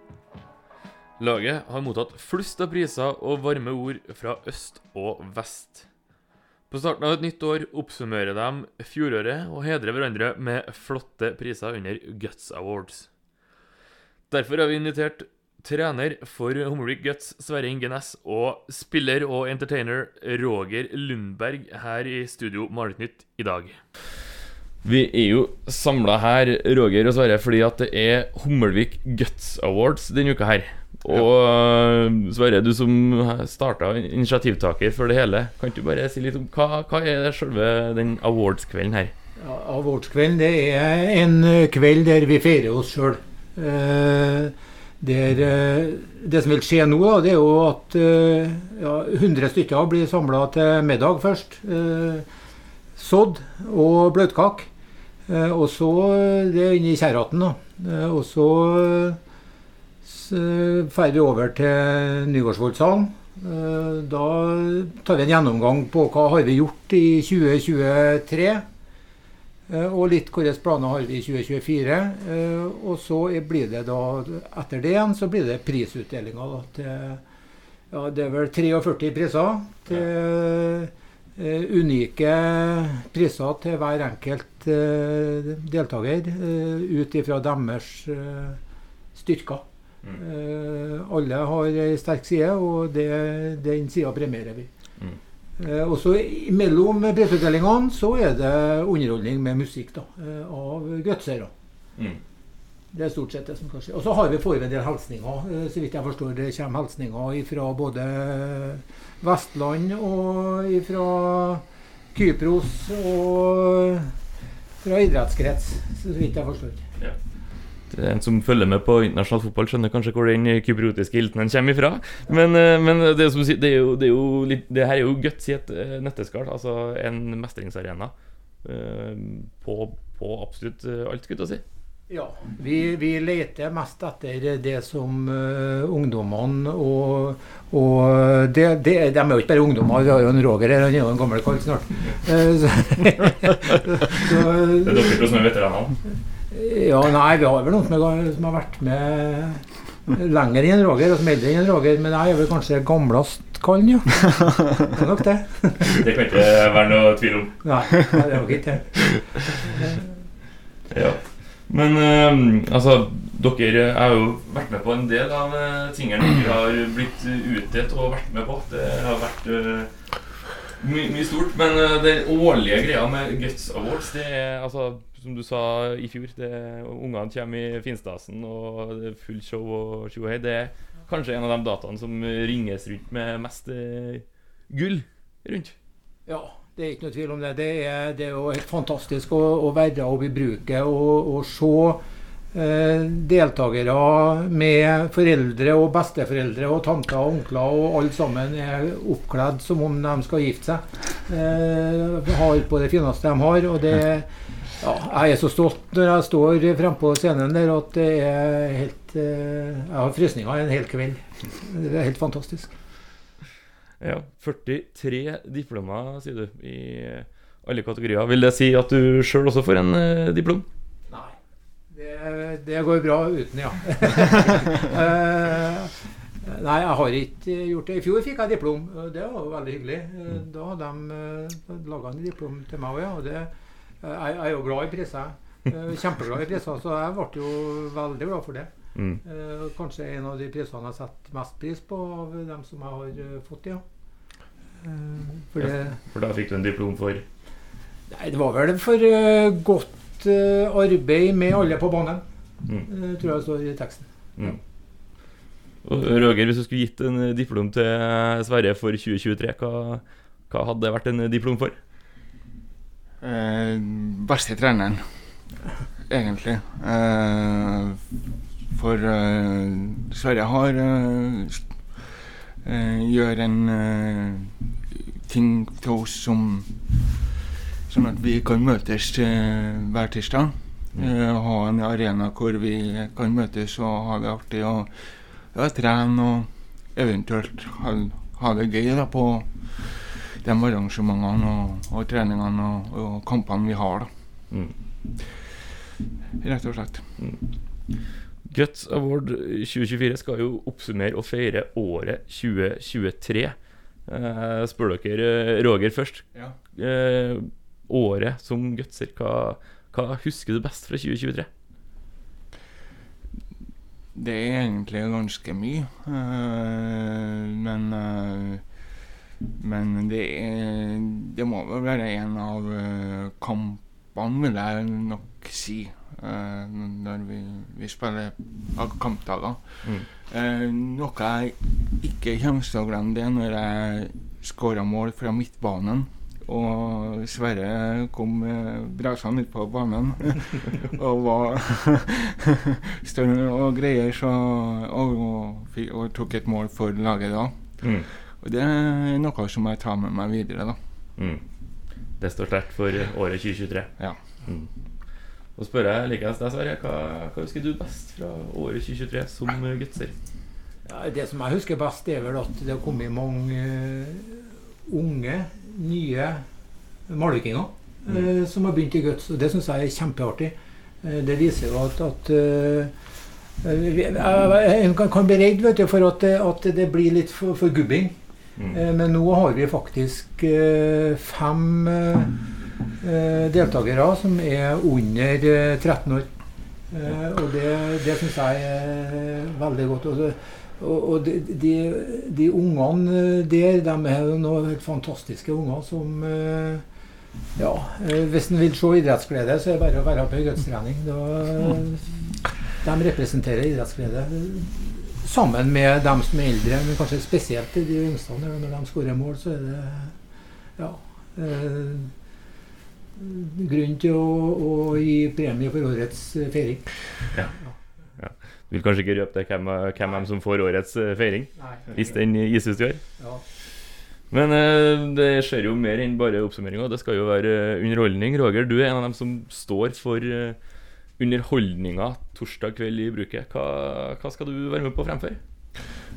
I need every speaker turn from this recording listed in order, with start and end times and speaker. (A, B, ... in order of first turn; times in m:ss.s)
0:01.2-0:05.8 A
0:06.7-0:13.1 A
0:14.3-0:23.8 A
0:24.8-0:39.1 A
0:39.4-0:52.2 B
0:53.0-0:54.7 B
0:55.3-0:59.2 B
1:00.0-1:08.6 B
1:09.7-1:17.2 B
1:17.9-1:28.6 B
1:29.1-1:34.7 B
1:35.6-1:41.5 B
1:42.9-1:54.1 B
1:54.8-1:56.8 B
1:57.9-2:11.6 A
2:12.1-2:25.2 B
2:24.8-2:26.0 A
2:26.5-2:36.0 B
2:35.8-2:37.6 A
2:37.6-2:40.2 B
2:40.9-3:05.7 A
3:06.2-3:12.0 B
3:12.5-3:32.7 B
3:34.0-3:40.6 A
3:41.1-3:41.3 B
3:41.9-3:53.5 B
3:54.0-3:58.7 B
3:59.0-3:59.2 A
3:59.2-4:03.8 B
4:04.8-4:06.0 B
4:05.6-4:07.2 A
4:08.1-4:12.2 B
4:12.8-4:14.1 B
4:15.8-4:21.8 A
4:23.2-4:25.5 C
4:26.1-4:28.0 C
4:28.7-4:37.2 C
4:37.8-4:54.1 C
4:54.5-4:54.7 A
4:56.4-4:57.2 C
4:57.2-4:57.4 A
4:58.4-5:03.6 A
5:04.1-5:11.5 A
5:14.1-5:18.9 C
5:19.5-5:50.8 C
5:47.8-5:48.1 A
5:51.2-5:51.4 A
5:52.2-5:54.7 A
5:55.6-6:00.1 A
6:00.8-6:06.4 B
6:07.1-6:12.9 B
6:13.6-6:18.2 B
6:18.7-6:22.4 B
6:23.0-6:26.3 B
6:26.9-6:36.8 B
6:37.6-6:50.1 B
6:50.8-6:52.1 B
6:53.2-6:56.9 B
6:58.2-7:03.0 A
7:01.6-7:02.0 B
7:03.2-7:03.4 B
7:04.3-7:10.6 A
7:11.2-7:15.4 A